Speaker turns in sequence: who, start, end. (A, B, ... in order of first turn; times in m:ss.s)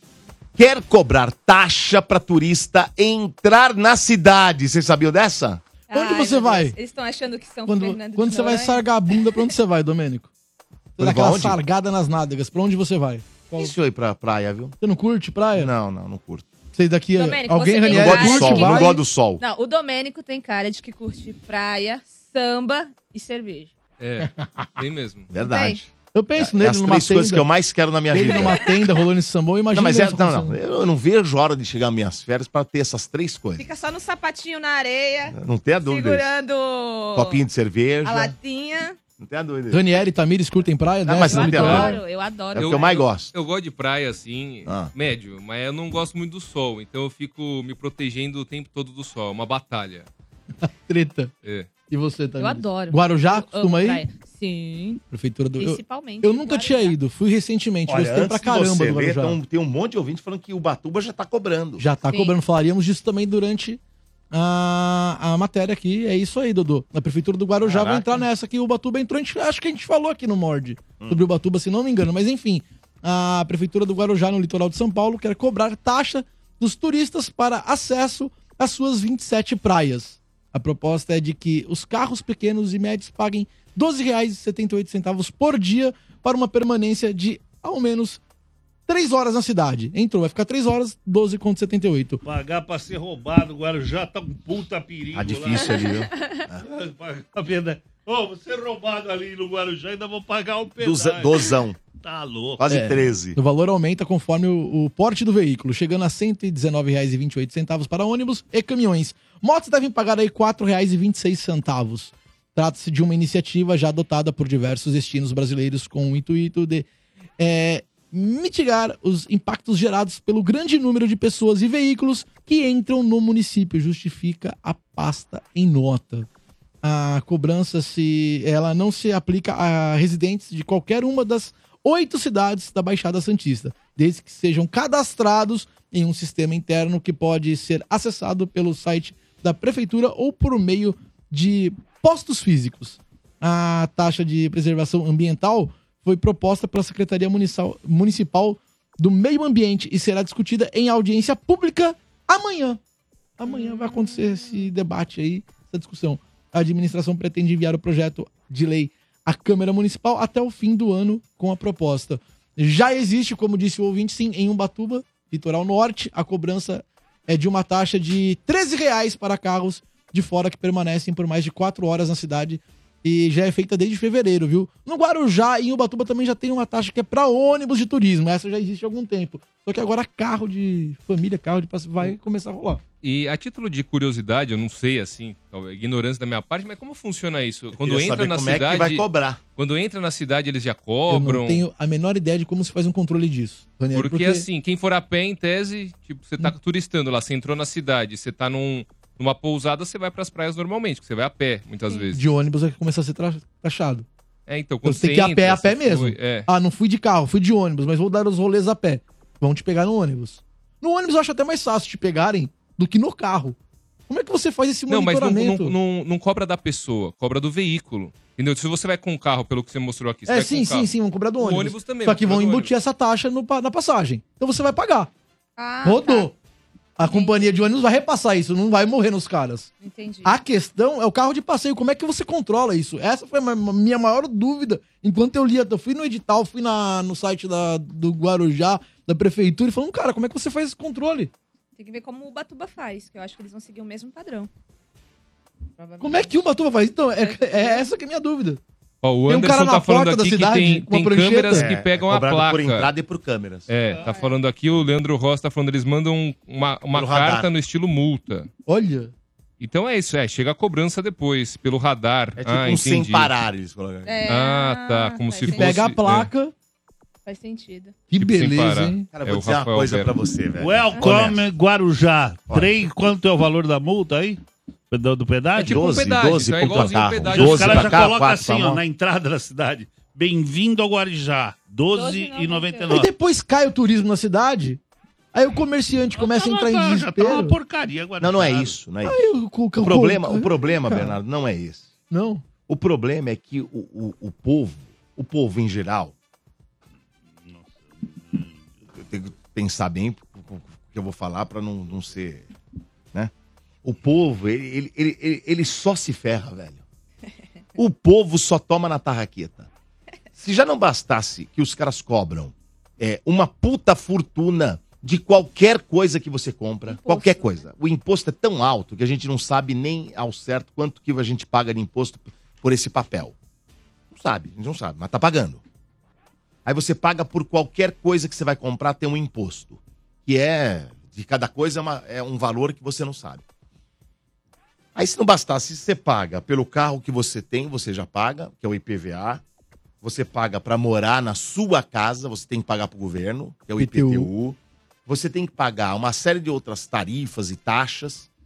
0:00.6-0:05.6 A
0:05.9-0:09.5 B
0:05.9-0:06.8 C
0:07.7-0:10.3 C
0:11.0-0:13.7 C
0:11.0-0:11.6 A
0:13.6-0:14.8 A
0:14.8-0:15.7 C
0:15.6-0:16.5 A
0:16.7-0:19.0 C
0:17.2-0:23.7 B
0:17.8-0:19.4 A
0:24.0-0:25.3 D
0:25.3-0:28.6 A
0:25.4-0:25.8 B
0:26.1-0:27.5 C
0:28.1-0:30.6 C
0:29.7-0:33.7 A
0:33.6-0:37.4 B
0:35.3-0:36.3 A
0:37.1-0:38.3 A
0:38.0-0:39.0 B
0:39.2-0:39.8 A
0:39.7-0:42.0 C
0:41.0-0:42.0 A
0:41.3-0:42.9 B
0:42.5-0:43.3 A
0:42.5-0:50.1 D
0:44.7-0:44.9 A
0:50.6-0:51.3 C
0:51.4-0:51.7 D
0:51.9-0:54.0 C
0:52.4-0:55.0 B
0:55.1-0:59.4 C
0:55.6-0:57.0 B
0:57.9-1:01.9 A
1:01.8-1:03.8 C
1:02.0-1:02.3 B
1:04.3-1:28.2 C
1:07.6-1:08.2 A
1:28.9-1:32.2 C
1:32.2-1:35.7 E
1:35.1-1:36.6 A
1:35.8-1:36.4 B
1:36.6-1:42.6 E
1:40.8-1:41.8 A
1:42.6-1:43.4 A
1:42.7-1:56.9 C
1:57.4-2:06.3 C
2:06.8-2:32.8 C
2:33.4-3:02.8 C
2:33.4-2:34.7 B
3:03.0-3:09.0 D
3:07.8-3:09.4 A
3:09.6-3:11.6 D
3:11.1-3:14.5 C
3:13.9-3:22.2 D
3:22.1-3:24.0 C
3:24.5-3:26.5 D
3:24.8-3:33.6 C
3:34.1-3:35.8 C
3:34.9-3:42.7 D
3:40.3-3:45.1 C
3:45.6-3:46.3 B
3:45.8-3:46.3 C
3:47.0-3:49.7 C
3:47.1-3:47.6 B
3:49.8-3:50.4 B
3:50.2-4:01.3 C
4:01.8-4:04.5 B
4:05.8-4:06.4 B
4:06.0-4:08.6 C
4:07.1-4:07.9 B
4:09.0-4:12.9 D
4:09.3-4:11.7 C
4:11.5-4:13.7 A
4:13.7-4:18.5 D
4:14.0-4:14.4 B
4:16.9-4:17.5 A
4:18.7-4:19.1 C
4:19.6-4:23.3 D
4:22.4-4:24.2 A
4:24.0-4:25.7 B
4:24.3-4:26.3 D
4:25.4-4:26.5 C
4:27.3-4:28.0 B
4:28.1-4:29.1 C
4:28.1-4:30.1 D
4:29.1-4:31.4 A
4:30.6-4:36.0 E
4:30.9-4:31.2 B
4:32.5-4:33.0 A
4:35.6-4:38.1 D
4:35.6-4:38.8 A
4:37.3-4:43.1 E
4:41.9-4:42.9 B
4:42.9-4:44.8 C
4:45.3-4:47.6 C
4:46.2-4:48.8 E
4:48.2-4:49.3 A
4:49.0-4:51.2 C
4:49.8-4:51.9 A
4:52.1-4:52.4 C
4:52.7-4:56.1 A
4:57.3-4:58.7 E
4:59.0-5:02.5 A
5:03.8-5:06.8 A
5:07.8-5:09.7 A
5:10.4-5:23.4 A
5:16.9-5:17.7 B
5:24.1-5:25.6 A
5:26.6-5:33.4 A
5:35.0-5:39.4 A
5:40.0-5:48.3 A
5:43.8-5:44.3 C